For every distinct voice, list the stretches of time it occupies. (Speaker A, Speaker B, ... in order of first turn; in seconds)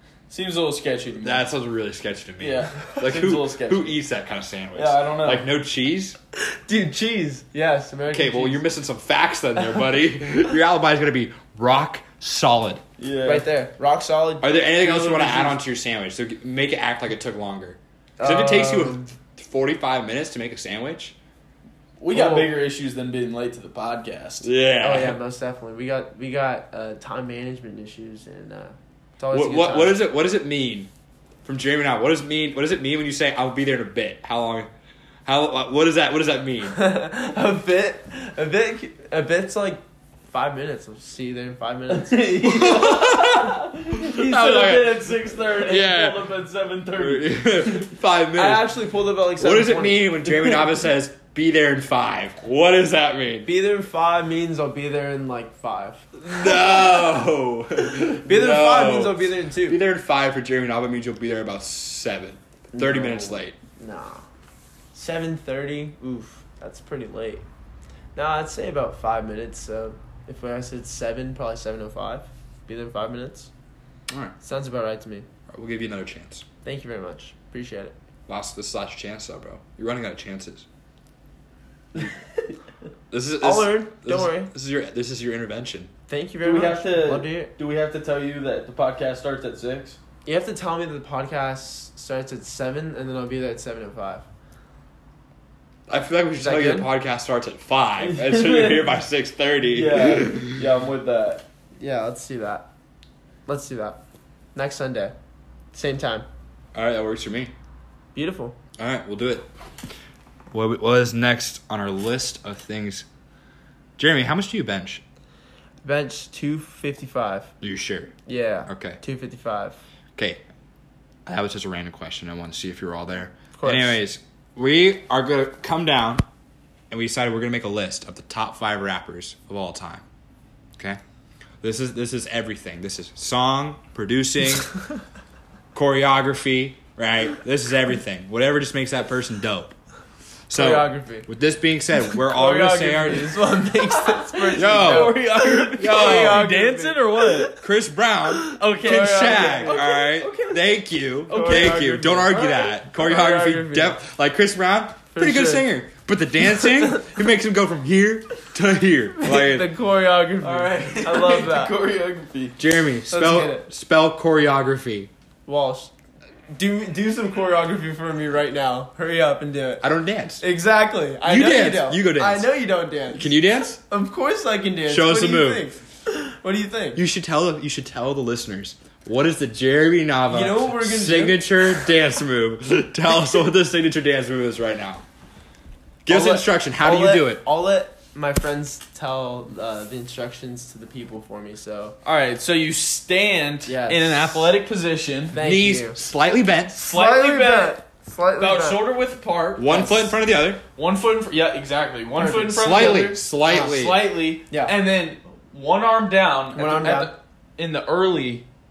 Speaker A: 0.3-1.4, 2.4-4.0, 4.7-5.5, 13.0-13.4, 22.0-24.5, 41.9-47.8, 86.4-90.0, 98.0-99.0, 99.7-101.4, 143.8-147.6, 148.5-150.6, 151.3-152.1, 160.4-162.6, 192.0-195.4, 196.8-197.8, 198.4-199.8, 200.8-208.4
Speaker B: 1.2-6.2, 8.1-12.8, 14.4-21.1, 24.4-25.2, 29.3-30.9, 31.4-34.7, 35.2-36.8, 42.4-46.3, 47.0-48.6, 49.4-53.5, 56.2-63.5, 74.1-74.3, 75.5-76.4, 78.3-80.7, 83.1-85.9, 95.9-100.6, 106.7-107.5, 108.8-109.5, 110.5-113.1, 114.0-115.0, 117.6-118.1, 118.7-119.0, 120.2-120.4, 121.2-126.2, 126.9-130.0, 131.6-134.7, 135.7-139.7, 140.5-143.3, 144.5-145.2, 145.8-146.5, 147.6-159.7, 162.6-165.1, 169.8-170.4, 171.2-172.5, 173.1-173.8, 174.9-175.6, 176.9-185.0, 186.0-187.4, 195.3-196.8, 199.6-200.6, 202.6-204.1
Speaker C: 6.4-8.6, 13.2-15.6, 18.2-19.1, 22.1-22.5, 24.8-30.0, 36.7-42.7, 48.3-50.7, 53.4-56.6, 58.1-59.8, 62.7-64.2, 64.9-67.4, 68.2-73.5, 74.4-75.2, 76.6-77.9, 83.4-84.5, 86.1-87.5, 90.2-94.2, 96.4-96.9, 101.8-102.7, 103.5-104.0, 104.5-105.1, 105.7-106.2, 108.1-108.6, 115.8-117.5, 118.2-119.8, 123.5-124.0, 140.5-141.3, 142.2-147.6, 148.3-149.9, 151.3-154.0, 155.1-155.7, 156.6-157.1, 159.2-161.7, 163.1-163.7, 165.4-165.9, 166.5-169.8, 170.4-177.0, 180.3-181.7, 186.1-192.0, 193.7-194.5, 195.3-196.0, 196.8-198.8, 199.7-200.1, 202.2-203.7, 204.5-204.7, 206.5-207.1